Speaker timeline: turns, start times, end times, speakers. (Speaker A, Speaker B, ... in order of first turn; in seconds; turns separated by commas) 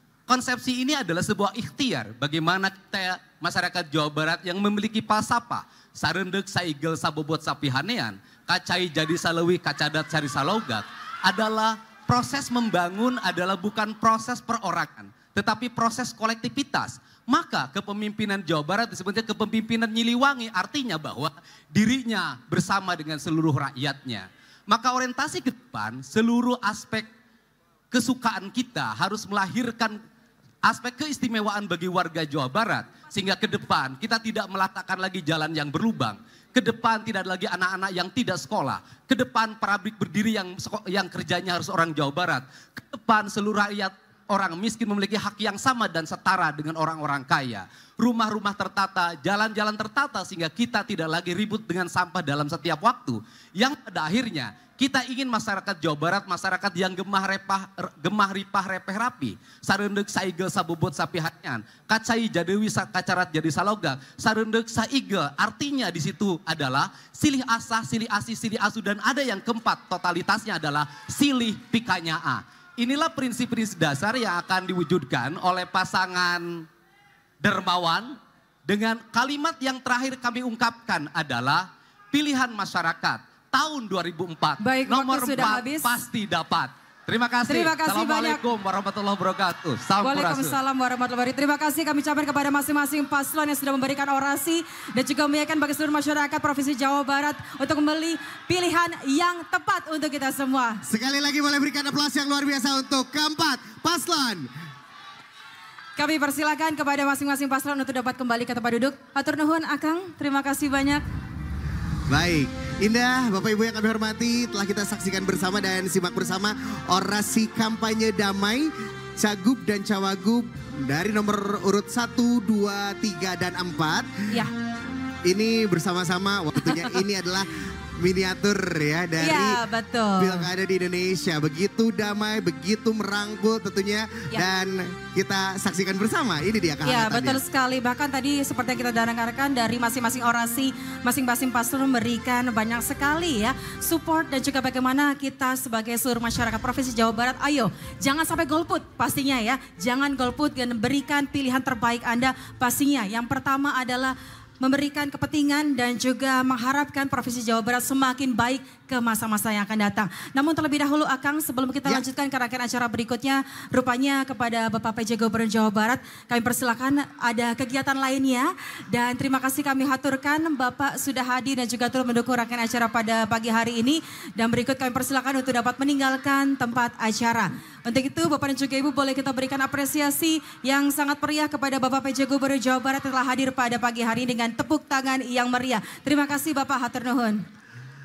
Speaker A: 0.3-27.1, Speaker A: 27.9-30.0, Speaker A: 30.6-76.7, Speaker A: 77.4-90.5, Speaker B: 84.6-85.9, Speaker B: 87.5-88.4, Speaker B: 90.0-100.8, Speaker C: 100.8-104.5, Speaker B: 106.0-111.0, Speaker C: 112.1-124.1, Speaker C: 125.2-129.6, Speaker B: 126.7-127.0, Speaker B: 129.2-130.5, Speaker C: 130.2-137.4, Speaker B: 136.8-187.4